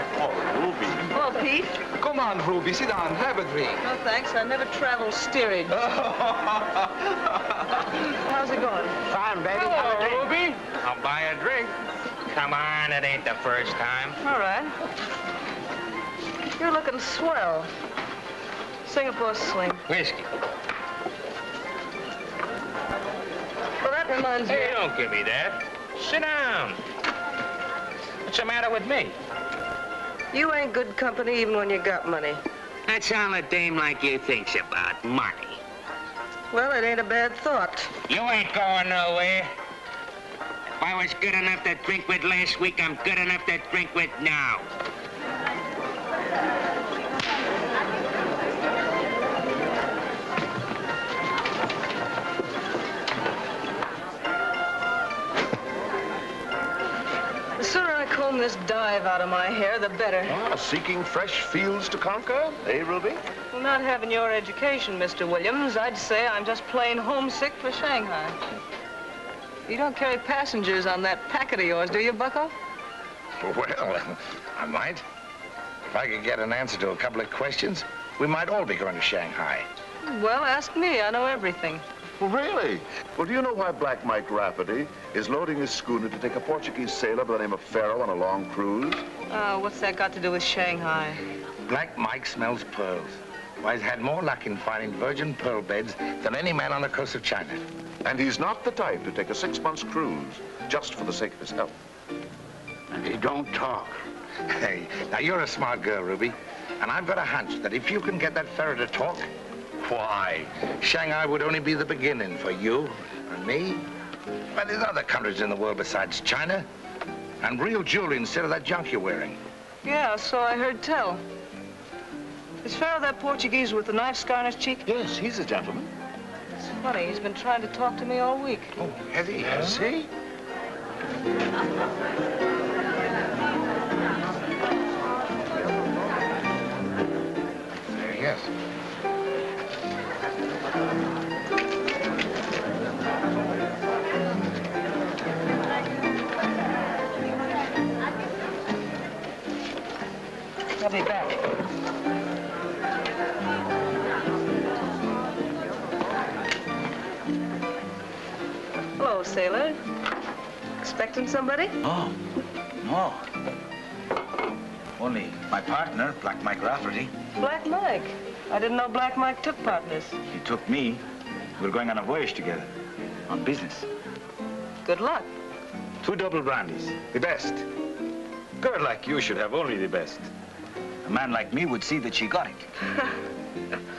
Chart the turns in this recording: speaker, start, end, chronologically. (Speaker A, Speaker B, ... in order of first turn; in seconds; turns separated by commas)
Speaker A: 0.2-1.0, Speaker B: 1.1-1.8, Speaker A: 2.0-3.8, Speaker B: 3.8-5.8, Speaker C: 5.8-6.8, Speaker B: 8.1-9.0, Speaker C: 9.1-11.7, Speaker B: 9.6-10.2, Speaker A: 9.8-10.2, Speaker C: 12.3-14.2, Speaker B: 14.2-14.8, Speaker B: 16.6-17.7, Speaker B: 18.9-19.8, Speaker C: 19.9-20.2, Speaker B: 23.8-24.8, Speaker C: 24.5-26.8, Speaker C: 28.2-29.2, Speaker B: 30.3-32.4, Speaker C: 32.9-35.6, Speaker B: 36.5-38.0, Speaker C: 38.1-39.5, Speaker C: 40.8-44.7, Speaker B: 57.6-60.4, Speaker D: 60.2-63.2, Speaker B: 63.5-68.4, Speaker B: 69.7-72.5, Speaker E: 73.4-75.0, Speaker E: 75.9-79.7, Speaker B: 80.0-81.8, Speaker D: 82.2-89.0, Speaker B: 89.3-91.2, Speaker E: 91.7-97.7, Speaker D: 98.0-101.7, Speaker E: 104.5-109.3, Speaker E: 109.8-113.8, Speaker E: 114.5-116.7, Speaker E: 117.4-119.4, Speaker B: 119.8-121.2, Speaker B: 122.6-124.8, Speaker D: 124.8-125.9, Speaker B: 126.6-128.7, Speaker E: 128.8-129.8, Speaker D: 129.4-130.1, Speaker E: 137.9-138.5, Speaker B: 150.8-151.4, Speaker B: 159.0-159.8, Speaker B: 160.8-161.8, Speaker F: 161.8-162.2, Speaker F: 162.8-163.3, Speaker F: 165.0-167.1, Speaker B: 167.4-170.2, Speaker F: 170.3-171.0, Speaker F: 171.6-172.7, Speaker F: 173.3-173.9, Speaker B: 174.8-175.3, Speaker F: 176.0-177.6, Speaker F: 178.6-180.3, Speaker F: 181.0-182.7